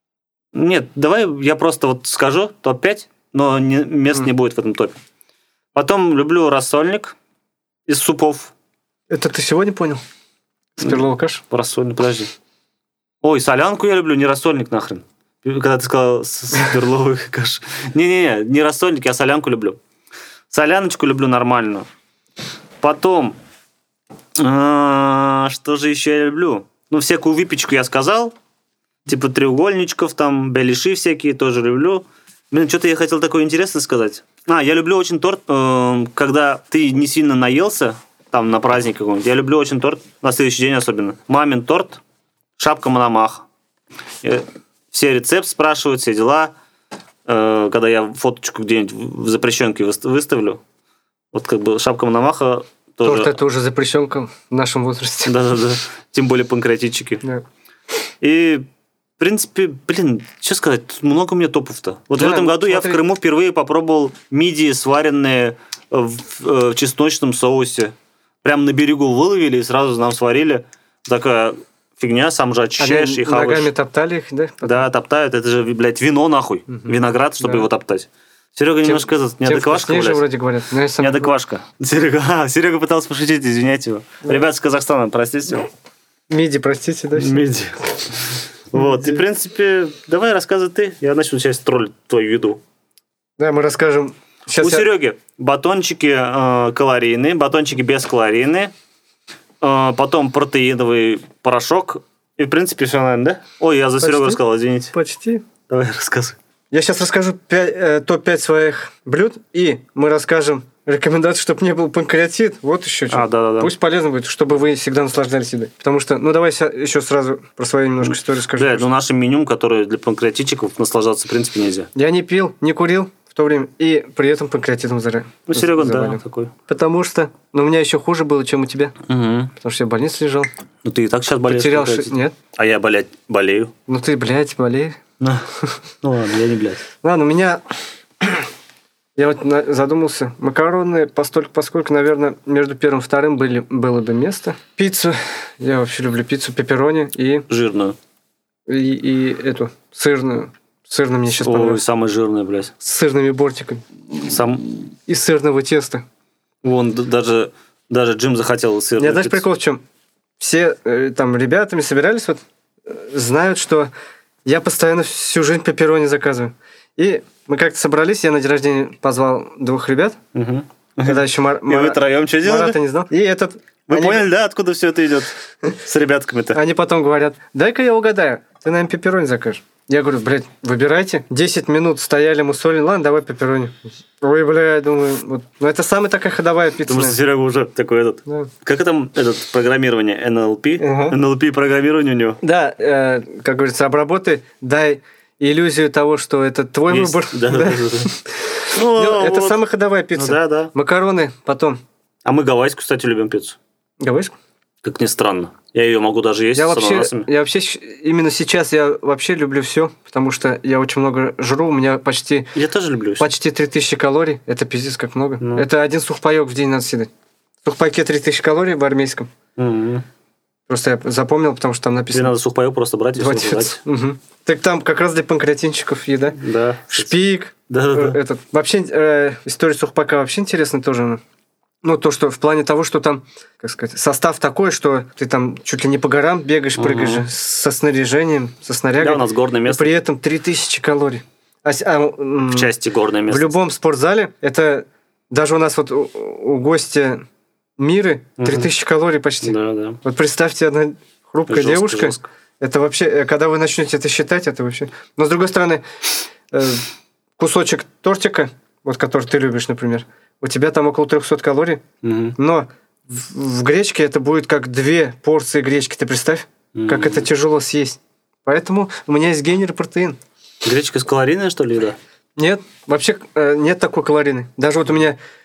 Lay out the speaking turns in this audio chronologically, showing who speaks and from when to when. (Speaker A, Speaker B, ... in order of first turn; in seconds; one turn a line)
Speaker A: 0.5-4.9
Speaker A: 5.8-7.1
Speaker A: 7.9-8.5
Speaker B: 9.1-10.0
Speaker B: 10.8-11.4
Speaker A: 10.8-12.3
Speaker A: 13.2-19.8
Speaker A: 20.5-21.9
Speaker A: 22.8-23.4
Speaker A: 24.4-28.3
Speaker A: 29.1-42.0
Speaker A: 42.6-43.4
Speaker A: 44.2-46.5
Speaker A: 47.2-50.6
Speaker A: 51.3-53.3
Speaker B: 53.0-55.3
Speaker A: 55.2-57.2
Speaker A: 58.2-58.7
Speaker A: 59.2-73.7
Speaker B: 62.2-63.0
Speaker B: 72.8-74.8
Speaker A: 74.6-80.2
Speaker B: 76.7-77.7
Speaker B: 78.8-81.3
Speaker A: 81.0-85.7
Speaker B: 86.3-87.5
Speaker A: 87.2-92.6
Speaker B: 88.8-89.2
Speaker B: 93.4-94.9
Speaker A: 94.6-98.7
Speaker A: 99.6-104.9
Speaker B: 104.0-104.4
Speaker B: 104.9-105.4
Speaker A: 105.7-106.4
Speaker B: 106.7-118.9
Speaker A: 113.1-113.7
Speaker A: 118.0-121.9
Speaker B: 121.9-128.9
Speaker A: 125.5-126.5
Speaker A: 129.1-129.5
Speaker B: 129.6-130.5
Speaker A: 130.8-133.7
Speaker B: 131.5-132.3
Speaker B: 133.9-135.0
Speaker A: 136.0-136.8
Speaker B: 137.0-137.6
Speaker B: 139.2-147.5
Speaker A: 147.5-147.9
Speaker B: 148.7-151.8
Speaker A: 151.4-152.7
Speaker B: 152.8-153.8
Speaker A: 154.2-154.9
Speaker B: 155.1-156.0
Speaker A: 156.6-159.4
Speaker B: 159.0-159.8
Speaker B: 160.4-163.9
Speaker B: 164.4-170.2
Speaker A: 170.3-172.8
Speaker B: 171.0-174.2
Speaker A: 173.9-175.3
Speaker A: 175.8-176.6
Speaker B: 176.5-187.2
Speaker A: 186.9-192.4
Speaker B: 190.8-191.2
Speaker B: 192.4-201.8
Speaker A: 196.9-198.1
Speaker A: 198.7-199.6
Speaker A: 200.1-200.7
Speaker A: 202.2-203.6
Speaker B: 204.0-204.3
Speaker A: 204.8-207.3
Speaker B: 206.5-212.5
Speaker A: 212.5-213.2
Speaker B: 213.2-217.1
Speaker A: 215.4-215.7
Speaker B: 217.6-219.3
Speaker A: 219.6-220.0
Speaker B: 220.7-222.3
Speaker A: 222.1-223.8
Speaker B: 223.2-226.4
Speaker A: 226.4-227.1
Speaker B: 226.9-231.2
Speaker A: 227.7-228.2
Speaker B: 231.8-242.7
Speaker A: 236.8-237.2
Speaker A: 239.0-240.0
Speaker A: 242.5-243.6
Speaker B: 243.3-247.2
Speaker B: 247.8-255.8
Speaker A: 248.4-248.7
Speaker A: 249.4-250.0
Speaker A: 251.5-252.2
Speaker B: 256.5-256.9
Speaker B: 257.4-261.8
Speaker A: 262.0-262.4
Speaker B: 262.4-270.2
Speaker A: 266.8-267.3
Speaker A: 270.6-272.0
Speaker B: 272.4-275.2